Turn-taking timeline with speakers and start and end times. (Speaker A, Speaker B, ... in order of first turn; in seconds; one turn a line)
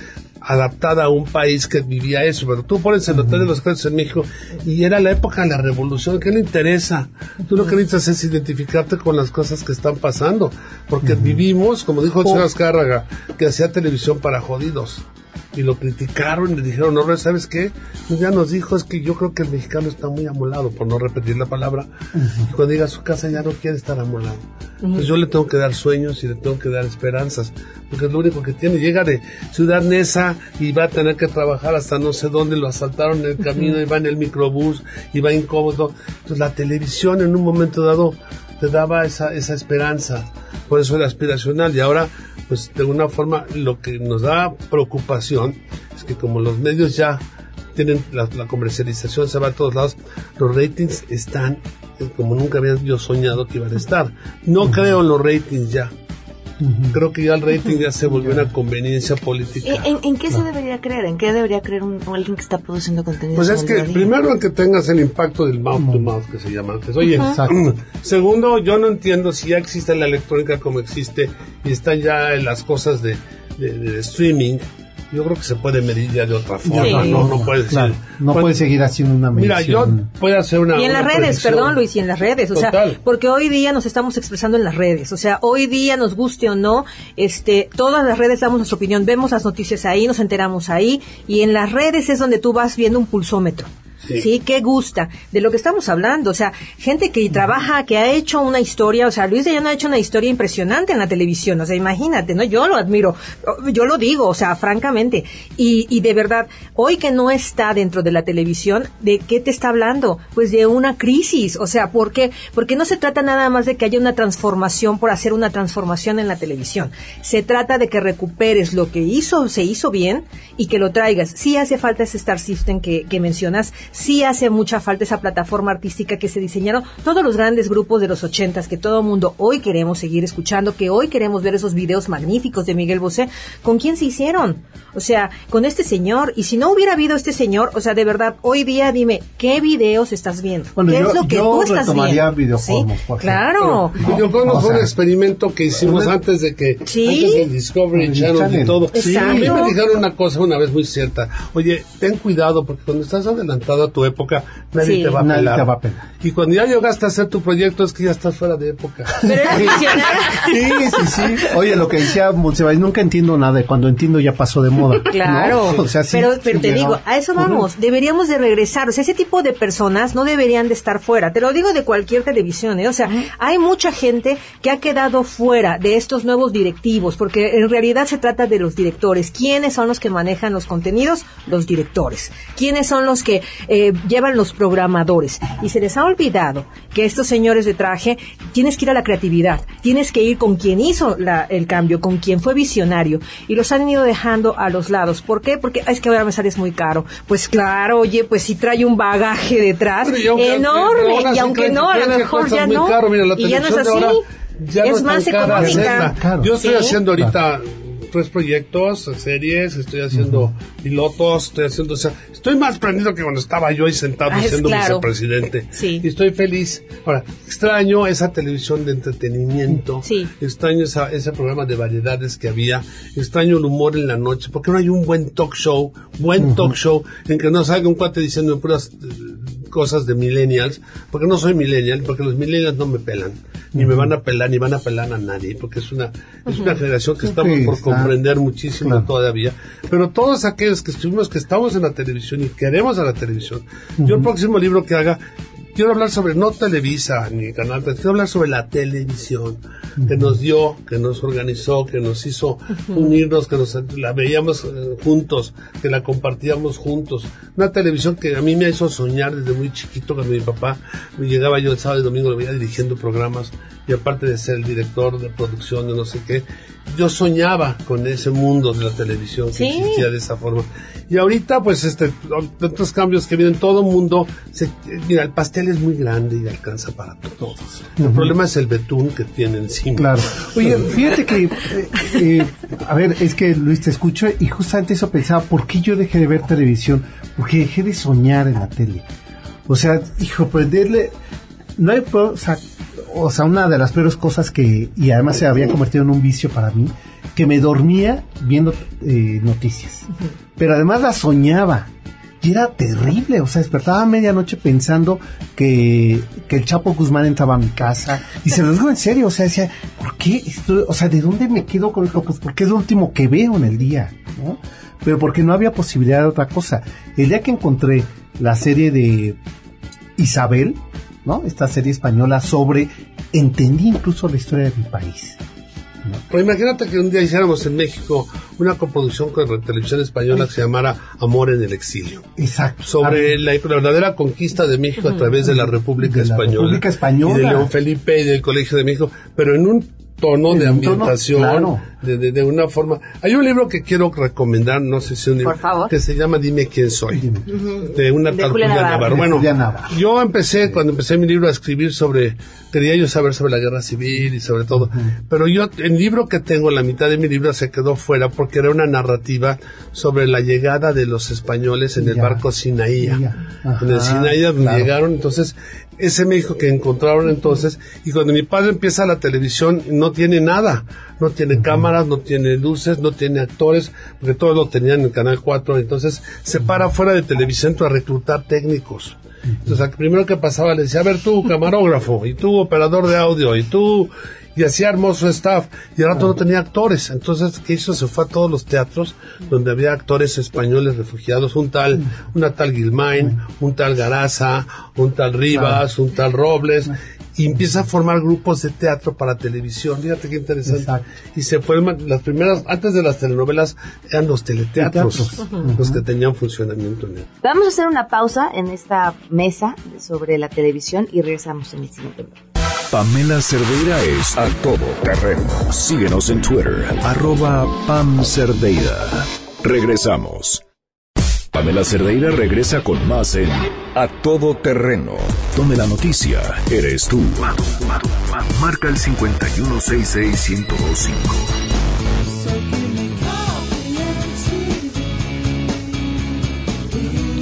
Speaker A: 0.4-21.9
Speaker B: 3.1-3.5
Speaker B: 11.0-11.4
Speaker B: 22.1-22.5
Speaker A: 22.5-24.4
Speaker C: 24.8-25.1
Speaker A: 24.9-47.2
Speaker A: 47.7-55.9
Speaker B: 54.6-55.0
Speaker B: 56.6-57.0
Speaker A: 56.9-59.9
Speaker B: 58.1-58.5
Speaker D: 59.6-64.1
Speaker A: 63.3-78.5
Speaker B: 65.8-66.1
Speaker B: 67.2-67.5
Speaker B: 76.6-80.1
Speaker C: 76.8-77.2
Speaker A: 79.3-81.8
Speaker C: 80.7-144.1
Speaker A: 82.5-83.0
Speaker B: 140.7-144.9
Speaker A: 143.6-155.7
Speaker B: 145.8-146.1
Speaker C: 146.8-147.5
Speaker B: 147.9-149.7
Speaker C: 148.9-149.8
Speaker C: 154.8-155.2
Speaker B: 155.2-156.1
Speaker A: 156.2-161.2
Speaker C: 159.2-161.0
Speaker B: 159.4-159.7
Speaker B: 160.4-167.6
Speaker C: 165.1-204.2
Speaker A: 165.3-165.8
Speaker A: 200.0-245.2
Speaker C: 204.8-207.0
Speaker B: 205.4-206.6
Speaker B: 210.1-210.5
Speaker C: 214.3-215.1
Speaker C: 215.7-216.0
Speaker C: 220.0-220.3
Speaker B: 226.4-226.8
Speaker B: 233.7-234.1
Speaker C: 236.5-236.8
Speaker B: 237.2-238.2
Speaker B: 238.8-239.1
Speaker B: 244.0-244.3
Speaker A: 245.7-280.9
Speaker B: 250.0-250.4
Speaker C: 252.9-253.2
Speaker C: 269.5-270.1
Speaker B: 278.0-278.3
Speaker B: 279.9-289.1
Speaker B: 289.7-291.1
Speaker B: 291.8-319.4
Speaker B: 320.2-325.4
Speaker A: 326.3-332.3
Speaker B: 332.4-333.4
Speaker A: 332.9-347.3
Speaker B: 335.4-337.7
Speaker B: 340.5-341.8
Speaker D: 345.4-345.9
Speaker B: 347.1-347.5
Speaker D: 347.5-349.3
Speaker A: 347.8-363.2
Speaker B: 349.0-350.0
Speaker B: 354.7-355.1
Speaker B: 362.0-362.4
Speaker B: 363.0-364.9
Speaker A: 363.8-407.3
Speaker B: 371.6-371.9
Speaker B: 395.5-395.8
Speaker B: 400.6-401.1
Speaker B: 404.8-406.0
Speaker D: 407.4-412.4
Speaker E: 412.9-420.6
Speaker E: 421.5-431.5